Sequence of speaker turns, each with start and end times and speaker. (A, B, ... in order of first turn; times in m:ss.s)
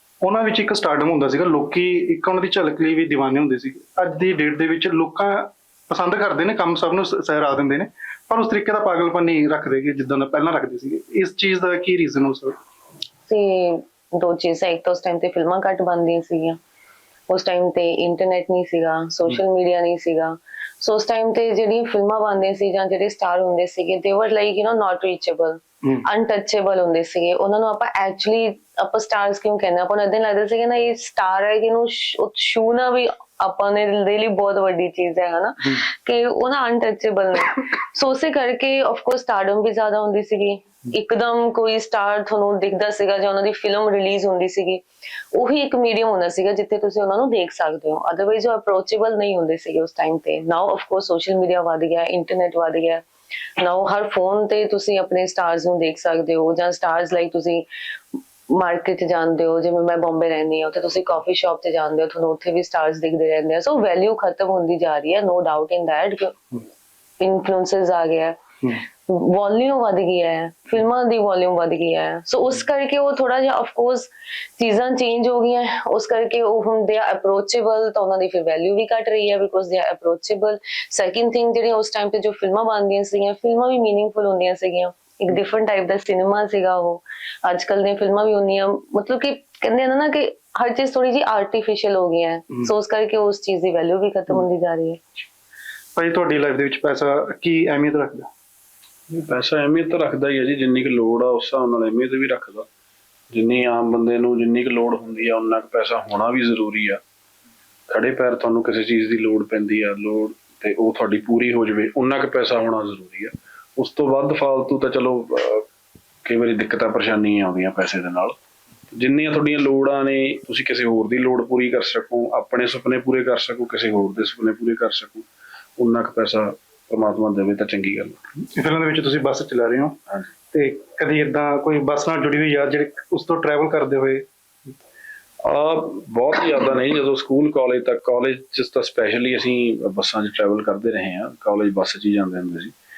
0:00.2-0:12.6 A
0:13.3-0:16.6 B
0:17.3-0:53.0 B
0:53.6-0:57.7 B
0:58.5-1:06.5 B
1:07.2-1:35.0 B
1:36.0-1:38.3 A
1:39.1-1:42.7 C
1:43.3-1:47.0 C
1:47.9-1:55.7 C
1:56.2-1:58.4 C
1:58.9-2:05.3 C
2:05.8-2:08.2 C
2:08.5-2:10.0 A
2:10.5-2:14.3 A
2:15.4-2:22.7 C